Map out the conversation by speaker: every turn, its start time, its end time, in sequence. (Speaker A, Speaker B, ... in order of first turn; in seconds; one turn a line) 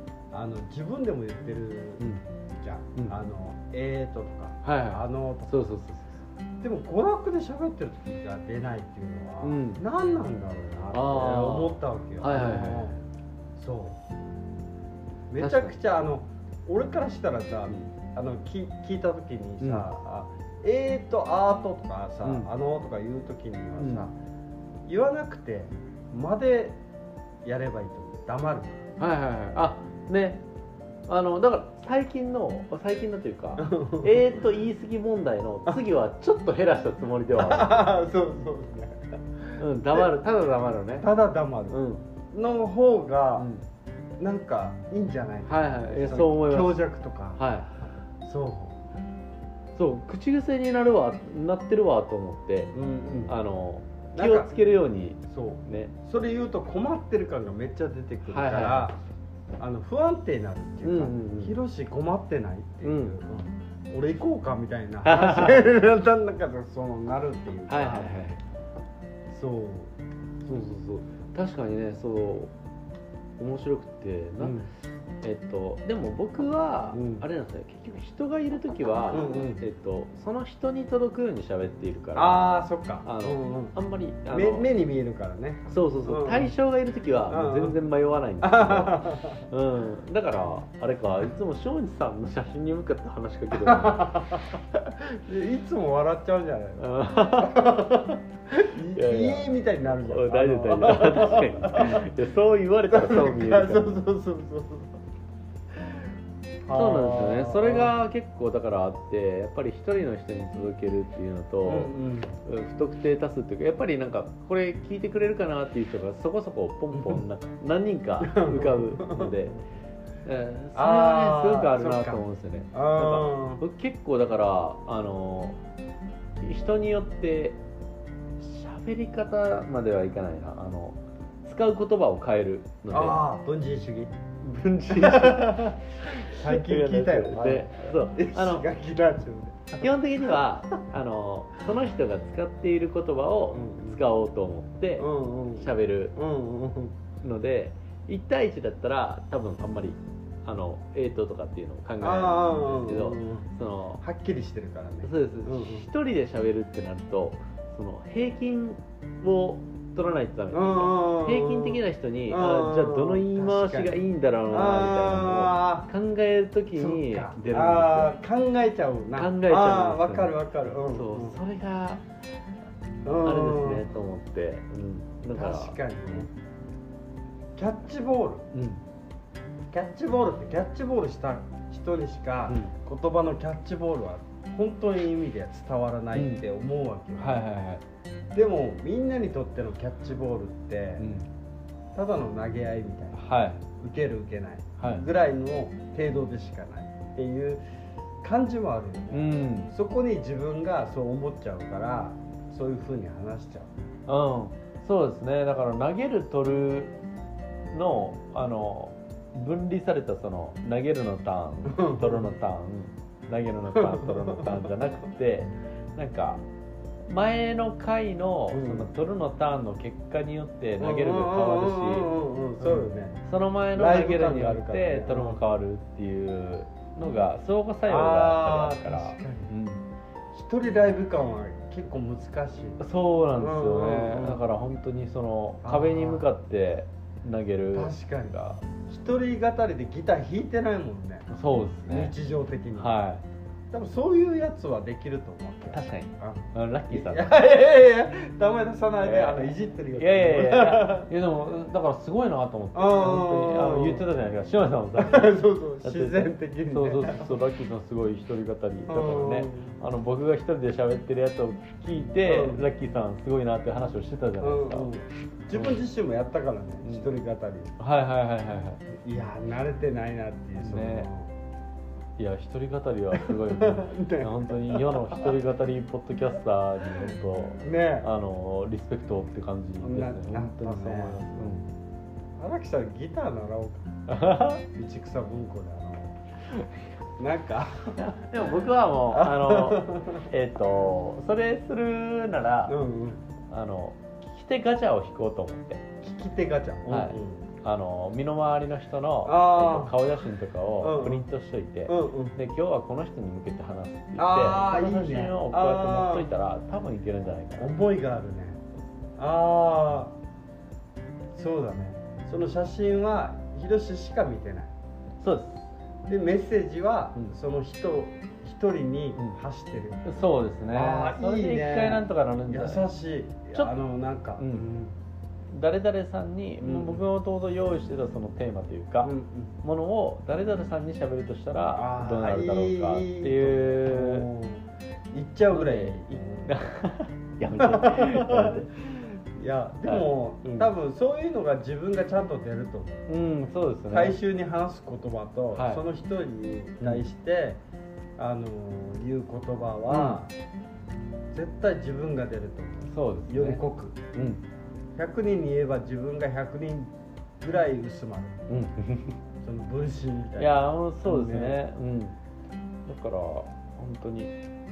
Speaker A: 0.3-2.0
Speaker A: 2.6-5.6
Speaker B: 4.6-6.2
Speaker A: 6.6-13.0
Speaker B: 9.4-9.8
Speaker B: 10.9-13.0
Speaker A: 13.6-14.0
Speaker A: 15.3-24.1
Speaker B: 15.4-15.8
Speaker B: 19.6-19.9
Speaker B: 23.8-24.1
Speaker A: 24.9-26.8
Speaker A: 27.4-28.8
Speaker B: 29.0-30.4
Speaker B: 31.1-37.8
Speaker A: 33.6-34.4
Speaker A: 37.3-40.1
Speaker B: 39.6-41.1
Speaker A: 41.0-41.8
Speaker B: 41.7-42.0
Speaker A: 42.3-43.5
Speaker B: 43.4-43.6
Speaker A: 44.2-47.4
Speaker B: 45.5-46.8
Speaker B: 47.4-47.7
Speaker A: 48.2-48.8
Speaker B: 49.8-52.7
Speaker A: 52.7-53.4
Speaker B: 53.3-55.9
Speaker A: 54.1-54.5
Speaker A: 55.3-59.0
Speaker B: 58.3-58.9
Speaker A: 59.6-68.2
Speaker B: 60.8-61.6
Speaker B: 62.8-63.2
Speaker B: 65.0-65.7
Speaker B: 67.7-68.4
Speaker A: 69.3-69.9
Speaker B: 70.5-72.5
Speaker B: 73.4-74.7
Speaker A: 74.4-74.7
Speaker B: 75.2-82.5
Speaker A: 76.9-77.3
Speaker A: 79.1-79.6
Speaker A: 82.2-83.8
Speaker B: 83.0-84.7
Speaker A: 84.3-86.5
Speaker B: 85.7-94.5
Speaker A: 87.3-87.8
Speaker A: 88.4-89.5
Speaker A: 93.5-94.4
Speaker A: 95.2-102.1
Speaker B: 96.8-98.2
Speaker B: 98.9-104.0
Speaker A: 102.9-105.0
Speaker A: 106.7-108.0
Speaker B: 106.7-111.9
Speaker A: 111.7-112.3
Speaker B: 112.5-119.6
Speaker A: 116.9-117.2
Speaker A: 118.2-119.5
Speaker B: 120.2-125.6
Speaker A: 120.8-122.2
Speaker A: 122.7-123.6
Speaker B: 126.4-127.6
Speaker B: 128.4-133.2
Speaker A: 132.9-134.1
Speaker B: 134.4-138.7
Speaker A: 134.9-139.9
Speaker B: 139.8-146.2
Speaker A: 143.5-144.0
Speaker A: 145.0-146.9
Speaker B: 147.2-154.0
Speaker A: 152.0-153.5
Speaker A: 154.0-155.9
Speaker B: 155.0-168.1
Speaker A: 160.5-165.9
Speaker A: 166.7-171.4
Speaker B: 169.2-172.0
Speaker A: 173.1-173.9
Speaker B: 173.2-176.2
Speaker A: 175.3-176.3
Speaker A: 177.6-178.5
Speaker B: 178.5-178.8
Speaker A: 179.7-187.5
Speaker B: 186.1-186.4
Speaker B: 187.2-187.8
Speaker A: 188.3-191.1
Speaker B: 191.0-191.3
Speaker A: 191.9-193.2
Speaker B: 193.1-193.6
Speaker A: 193.8-197.6
Speaker B: 194.8-195.1
Speaker A: 198.2-203.7
Speaker B: 199.1-199.7
Speaker B: 204.1-206.9
Speaker B: 207.7-216.4
Speaker A: 211.7-212.4
Speaker A: 213.7-214.7
Speaker B: 217.1-229.8
Speaker A: 218.5-218.9
Speaker A: 220.8-223.2
Speaker A: 223.8-225.4
Speaker A: 227.9-229.5
Speaker A: 230.3-232.8
Speaker B: 232.8-238.6
Speaker A: 233.4-234.4
Speaker A: 235.6-236.3
Speaker A: 237.7-241.3
Speaker B: 241.3-242.1
Speaker A: 241.8-243.0
Speaker B: 242.8-243.2
Speaker A: 243.7-251.1
Speaker B: 245.7-247.3
Speaker B: 249.0-264.9
Speaker A: 252.8-254.1
Speaker A: 254.9-257.4
Speaker A: 258.9-259.7
Speaker A: 262.2-262.6
Speaker A: 264.4-267.7
Speaker B: 265.5-265.8
Speaker B: 267.8-268.8
Speaker A: 269.0-271.3
Speaker B: 270.6-271.1
Speaker B: 272.2-281.6
Speaker A: 273.1-275.4
Speaker A: 277.0-278.1
Speaker A: 279.8-281.3
Speaker A: 282.4-283.9
Speaker B: 284.1-284.6
Speaker A: 284.7-286.2
Speaker A: 287.2-288.1
Speaker B: 287.9-292.8
Speaker A: 289.1-290.3
Speaker A: 292.7-293.2
Speaker B: 293.5-295.8
Speaker A: 296.0-297.4
Speaker B: 296.9-307.7
Speaker A: 299.3-300.0
Speaker A: 300.8-301.3
Speaker A: 301.9-302.4
Speaker A: 304.2-306.3
Speaker A: 307.6-308.6
Speaker A: 309.2-310.1
Speaker A: 311.4-314.7
Speaker B: 315.2-315.7
Speaker A: 316.1-320.0
Speaker B: 320.0-322.9
Speaker A: 320.7-324.9
Speaker B: 324.4-324.7
Speaker B: 325.5-334.3
Speaker A: 326.6-327.1
Speaker A: 329.0-329.5
Speaker A: 331.7-336.7
Speaker B: 335.5-338.7
Speaker A: 337.4-343.1
Speaker B: 339.8-340.7
Speaker B: 343.1-344.2
Speaker A: 343.9-347.6
Speaker B: 345.5-345.8
Speaker A: 348.2-350.3
Speaker B: 349.9-350.2
Speaker A: 351.3-354.0
Speaker B: 352.9-353.6
Speaker B: 354.1-354.4
Speaker A: 355.0-358.3
Speaker B: 358.5-359.2
Speaker A: 359.4-361.6
Speaker B: 360.4-362.2
Speaker B: 362.9-364.4